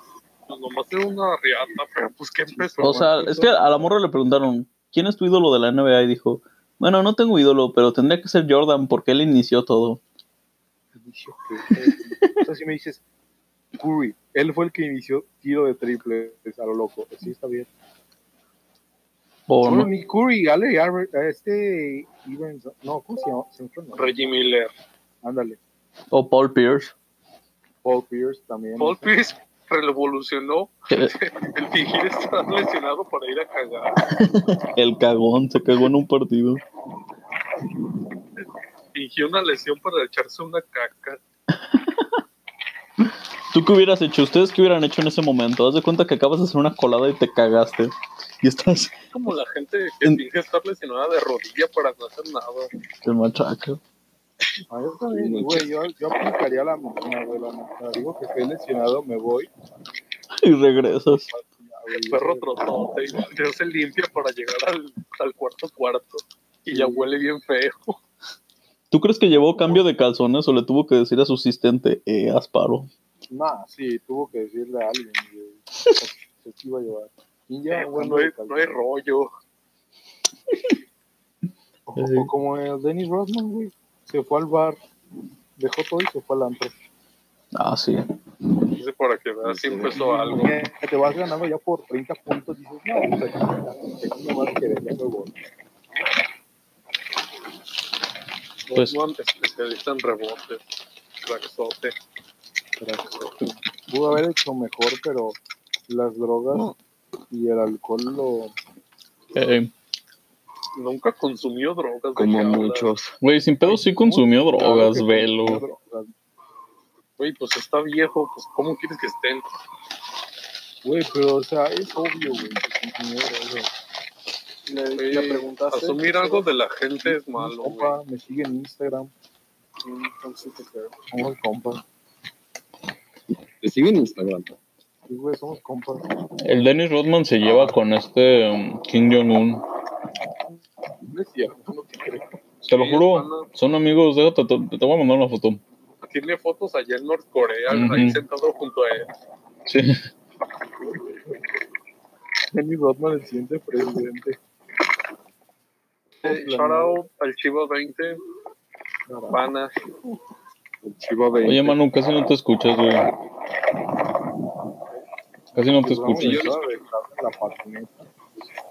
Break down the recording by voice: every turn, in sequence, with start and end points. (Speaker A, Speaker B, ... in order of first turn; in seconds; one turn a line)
Speaker A: 0.5-3.0
Speaker B: 2.5-3.9
Speaker C: 2.8-10.0
Speaker B: 10.9-13.0
Speaker C: 11.7-12.3
Speaker B: 13.8-17.7
Speaker C: 19.5-19.9
Speaker B: 19.6-24.1
Speaker A: 24.0-24.7
Speaker B: 25.2-25.6
Speaker C: 26.1-26.9
Speaker B: 27.8-29.1
Speaker A: 28.8-34.0
Speaker C: 34.2-36.6
Speaker A: 38.9-41.2
Speaker C: 41.5-42.2
Speaker C: 43.5-49.3
Speaker A: 49.1-52.7
Speaker C: 53.0-53.8
Speaker B: 54.7-59.5
Speaker D: 55.1-55.6
Speaker C: 60.4-61.3
Speaker B: 61.1-63.3
Speaker A: 62.1-68.0
Speaker B: 66.7-67.1
Speaker C: 68.9-72.9
Speaker B: 73.3-78.8
Speaker A: 77.7-79.3
Speaker C: 80.5-80.8
Speaker B: 81.8-84.8
Speaker C: 82.0-82.3
Speaker B: 85.6-86.8
Speaker C: 87.6-88.1
Speaker A: 88.8-90.6
Speaker D: 89.4-90.0
Speaker B: 90.0-95.3
Speaker A: 98.7-100.6
Speaker A: 101.2-101.9
Speaker B: 102.8-106.7
Speaker B: 107.3-108.6
Speaker C: 109.3-109.7
Speaker A: 110.8-112.9
Speaker D: 112.2-113.1
Speaker C: 113.2-115.6
Speaker B: 113.6-116.1
Speaker A: 117.2-119.5
Speaker B: 120.8-123.7
Speaker E: 124.7-126.5
Speaker A: 125.0-128.0
Speaker B: 127.0-129.1
Speaker E: 129.8-131.0
Speaker B: 131.1-131.8
Speaker D: 133.6-134.5
Speaker B: 135.1-136.1
Speaker C: 136.4-139.6
Speaker B: 141.0-142.4
Speaker A: 142.6-143.5
Speaker C: 142.7-145.6
Speaker A: 146.0-149.1
Speaker C: 147.7-148.2
Speaker C: 149.7-150.0
Speaker B: 152.5-154.4
Speaker B: 156.2-157.0
Speaker A: 156.2-158.2
Speaker B: 159.1-159.5
Speaker A: 159.3-159.7
Speaker D: 160.8-161.8
Speaker C: 161.4-163.1
Speaker C: 165.6-166.4
Speaker B: 165.8-168.5
Speaker D: 166.2-166.8